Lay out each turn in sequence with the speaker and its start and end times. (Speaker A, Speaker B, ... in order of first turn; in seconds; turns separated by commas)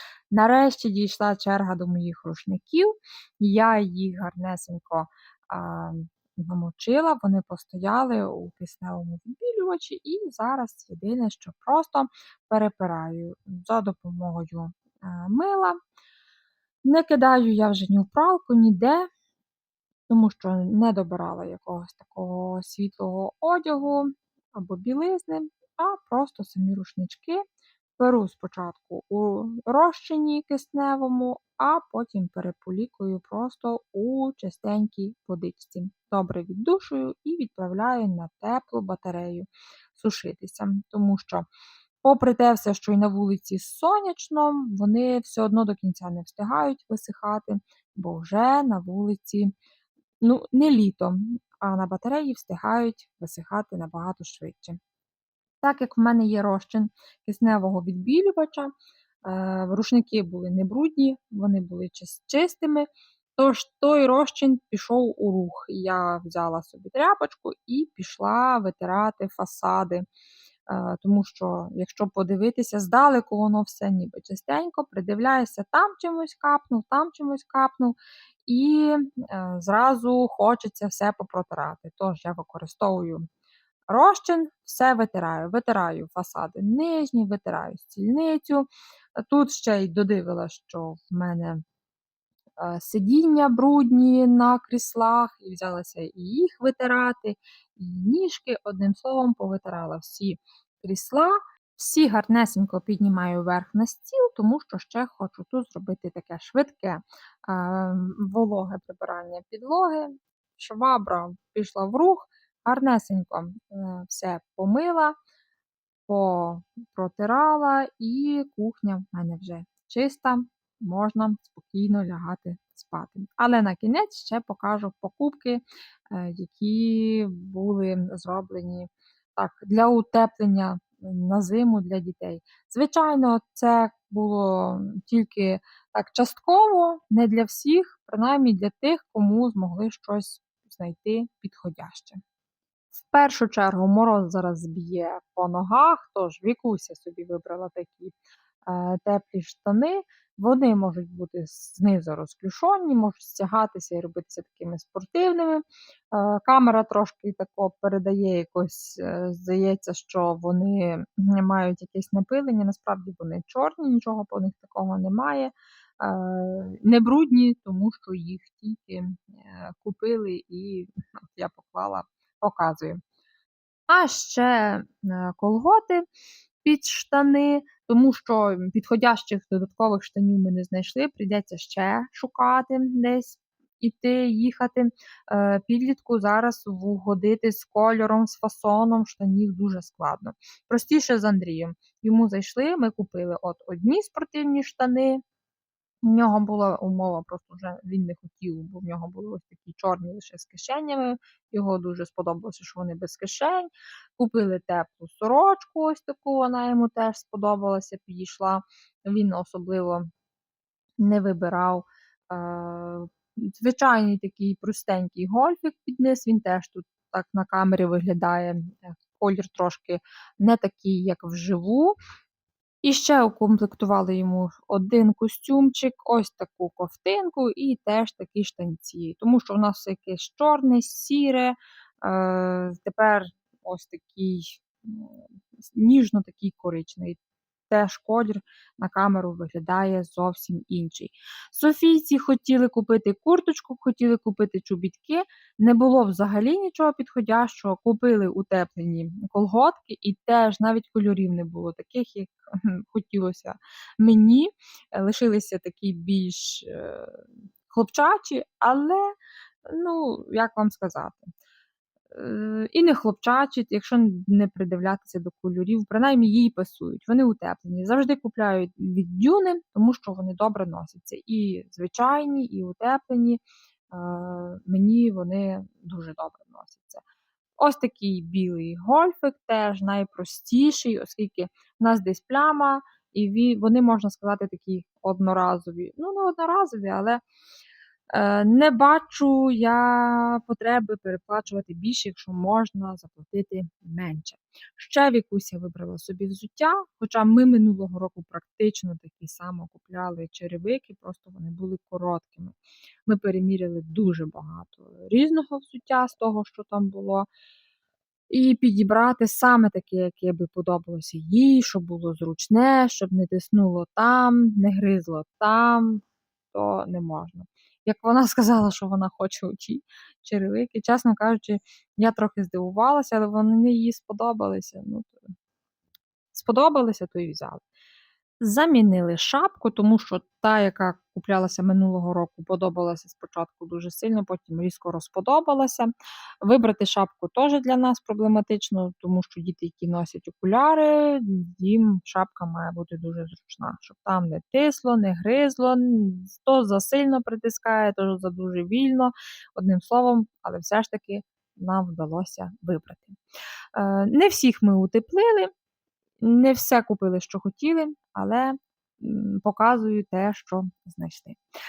Speaker A: 0.3-15.8, Speaker A: 16.8-19.1, Speaker A: 20.1-27.4, Speaker A: 28.0-41.5, Speaker A: 42.0-49.5, Speaker A: 50.2-54.8, Speaker A: 55.6-58.7, Speaker A: 59.2-70.1, Speaker A: 70.7-83.2, Speaker A: 83.9-91.6, Speaker A: 92.6-115.2, Speaker A: 116.1-142.2, Speaker A: 142.9-148.2, Speaker A: 148.7-173.0, Speaker A: 173.9-176.1, Speaker A: 176.6-195.2, Speaker A: 196.1-210.1, Speaker A: 211.0-221.9, Speaker A: 222.8-237.2, Speaker A: 237.7-259.1, Speaker A: 259.7-261.3, Speaker A: 262.1-277.0, Speaker A: 277.6-287.2, Speaker A: 288.1-307.3, Speaker A: 308.3-325.2, Speaker A: 326.3-327.6, Speaker A: 328.4-353.2, Speaker A: 353.8-355.5, Speaker A: 356.2-361.4